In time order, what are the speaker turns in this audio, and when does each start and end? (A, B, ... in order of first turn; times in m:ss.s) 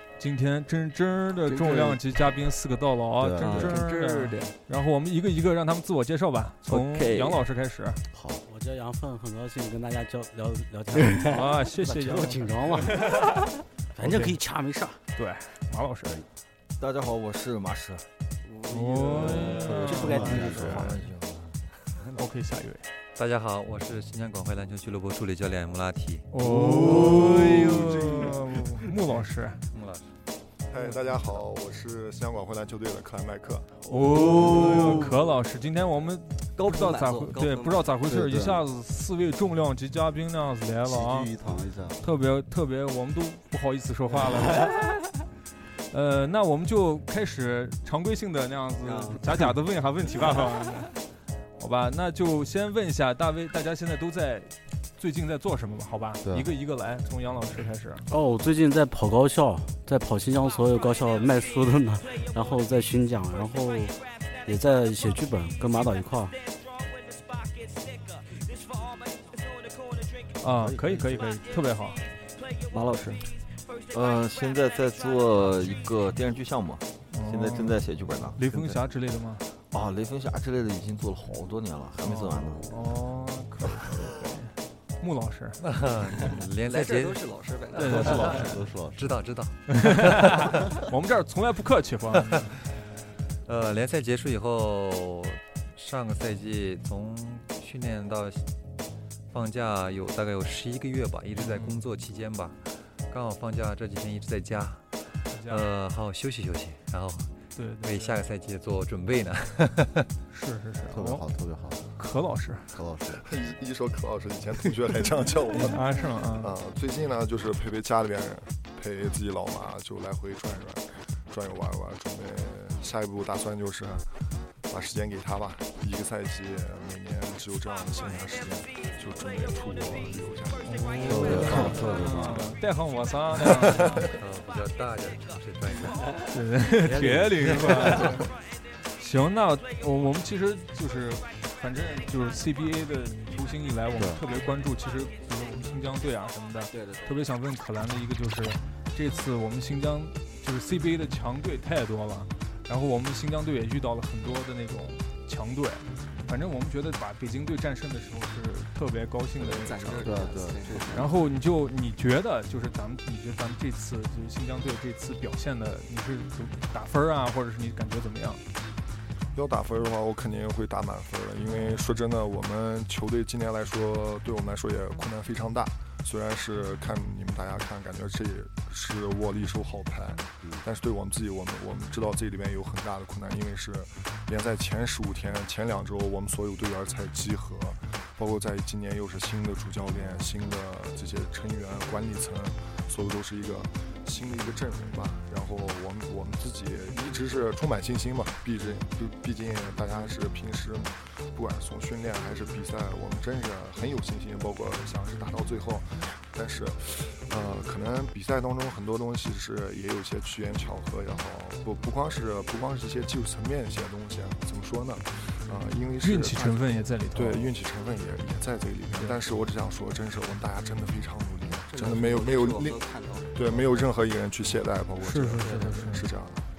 0:00.2-0:08.0 A
0:01.5-0:02.0 B
0:03.2-0:03.8 C
0:03.4-0:04.5 B
0:06.6-0:07.4 B
0:08.1-0:08.4 C
0:08.4-0:13.1 D
0:11.0-0:13.3 A
0:13.9-0:15.0 D
0:14.0-0:14.4 A
0:15.1-0:16.2 A
0:16.8-0:18.0 E
0:18.4-0:20.9 B
0:18.7-0:20.7 A
0:19.0-0:21.6 E
0:19.5-0:21.0 C
0:19.8-0:21.0 D
0:22.1-0:22.9 A
0:23.1-0:26.3 F
0:26.3-0:29.6 A
0:26.5-0:27.9 C
0:29.7-0:30.1 F
0:30.7-0:33.7 G
0:33.9-0:41.3 A
0:36.6-0:37.9 B
0:38.0-0:38.6 C
0:40.8-0:42.0 C
0:42.0-0:44.7 A
0:45.9-0:51.0 A
0:48.8-0:49.3 B
0:51.6-0:58.0 A
0:56.2-0:56.5 C
0:58.0-1:06.4 D
1:10.4-1:12.0 A
1:10.4-1:11.3 E
1:12.7-1:13.2 B
1:13.9-1:18.8 E
1:17.1-1:17.8 A
1:18.4-1:19.5 A
1:19.7-1:22.7 E
1:22.0-1:25.6 A
1:25.6-1:27.3 F
1:26.6-1:28.5 B
1:27.8-1:28.5 A
1:27.8-1:29.2 C
1:28.0-1:30.3 F
1:29.8-1:32.5 A
1:33.4-1:38.4 F
1:39.3-1:50.1 F
1:41.4-1:41.8 A
1:45.3-1:45.7 A
1:47.6-1:48.2 A
1:50.3-1:51.2 A
1:50.9-1:51.9 C
1:52.0-1:52.7 A
1:52.7-1:53.2 C
1:53.1-2:04.1 G
1:55.6-1:56.5 A
2:04.7-2:11.0 G
2:10.6-2:14.1 A
2:11.0-2:12.6 C
2:14.0-2:16.1 F
2:16.3-2:18.3 A
2:16.8-2:18.0 D
2:17.4-2:18.2 F
2:19.0-2:40.1 A
2:24.0-2:24.2 C
2:26.7-2:27.1 B
2:39.4-2:41.1 B
2:40.0-2:40.9 C
2:40.9-2:48.4 A
2:49.3-3:42.8 G
3:36.0-3:37.5 A
3:41.7-3:43.9 B
3:43.3-3:46.4 G
3:45.0-3:46.1 A
3:45.4-3:45.7 B